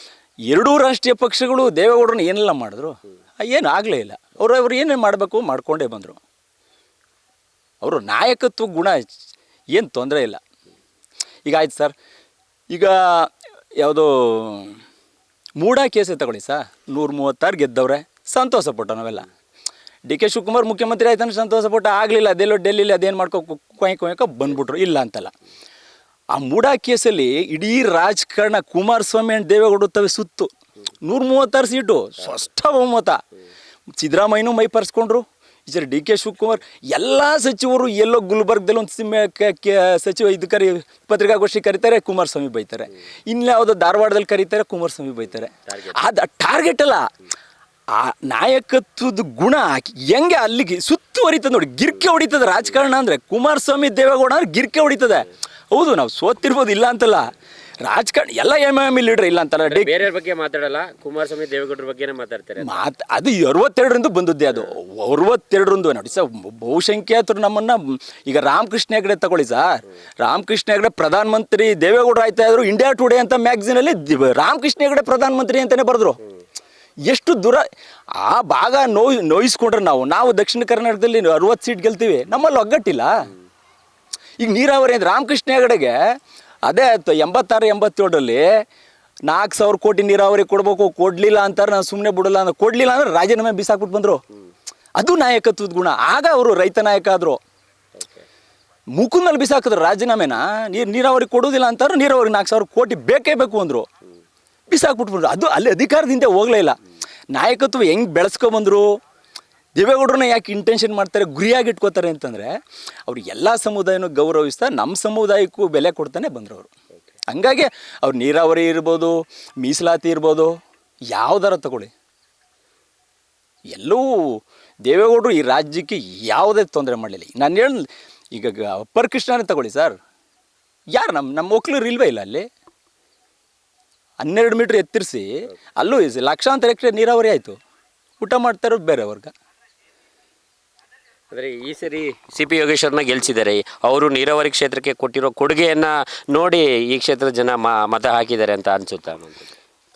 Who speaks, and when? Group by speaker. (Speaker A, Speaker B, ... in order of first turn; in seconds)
Speaker A: 0.5-6.2, 7.8-9.0, 9.7-10.4, 11.4-11.9, 12.7-14.8, 15.6-19.3, 20.1-25.3, 26.3-30.5, 31.0-33.2, 34.0-47.1, 47.9-60.0, 62.6-76.2, 77.1-83.3, 84.4-86.0, 86.7-88.4, 89.3-94.2, 95.0-97.4, 99.0-103.9, 104.7-106.8, 107.3-108.8, 109.8-112.5, 113.1-116.7, 117.3-120.5, 121.1-121.9, 123.7-129.9, 130.9-132.5, 134.2-137.6, 138.2-139.3
Speaker B: 45.7-46.1, 59.6-62.9, 98.0-98.2, 141.3-149.6